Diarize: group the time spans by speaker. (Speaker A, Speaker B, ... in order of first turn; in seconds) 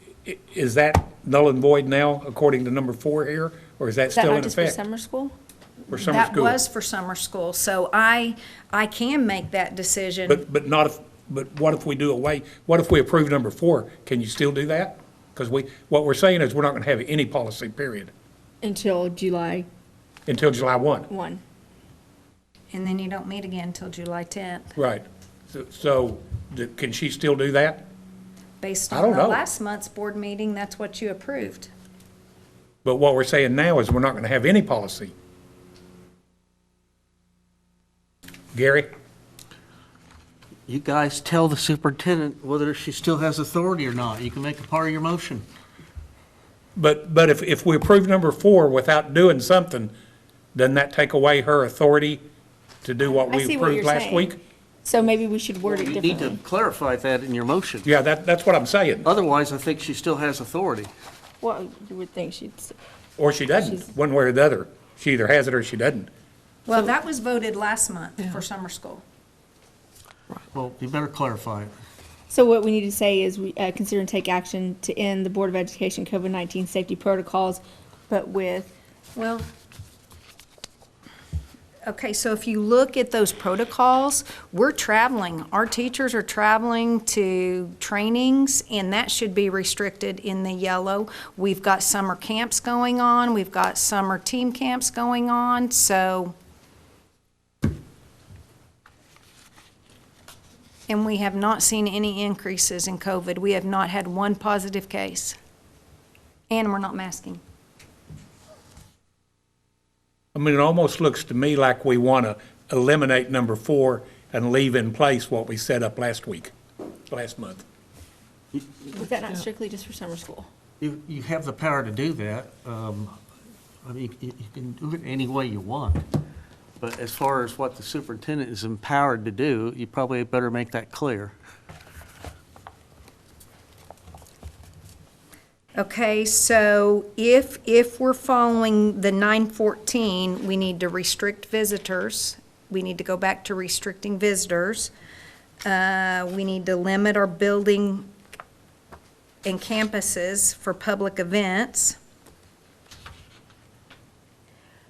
Speaker A: 0.2-4.8, 5.9-6.6, 10.3-18.1, 20.3-21.1, 24.8-27.9, 28.9-29.4, 32.8-35.1, 38.5-38.9, 46.8-49.9, 50.5-52.2, 52.8-54.4, 57.8-59.1, 63.2-66.1, 110.3-116.5, 117.1-117.6
Speaker B: 4.1-5.3, 18.6-19.7, 21.1-21.4, 53.1-54.3, 54.8-56.4, 61.4-62.7, 72.3-78.7, 118.9-120.5
Speaker C: 5.9-10.4, 22.7-24.7, 28.6-31.7, 66.7-69.0, 79.1-79.5, 81.8-96.3, 100.9-105.4, 106.5-107.4, 135.8-144.9, 145.6-148.1, 149.4-152.0
Speaker D: 40.7-45.4, 55.6-57.9, 59.0-60.9, 70.5-71.7, 120.8-123.2, 123.8-126.0, 126.8-131.3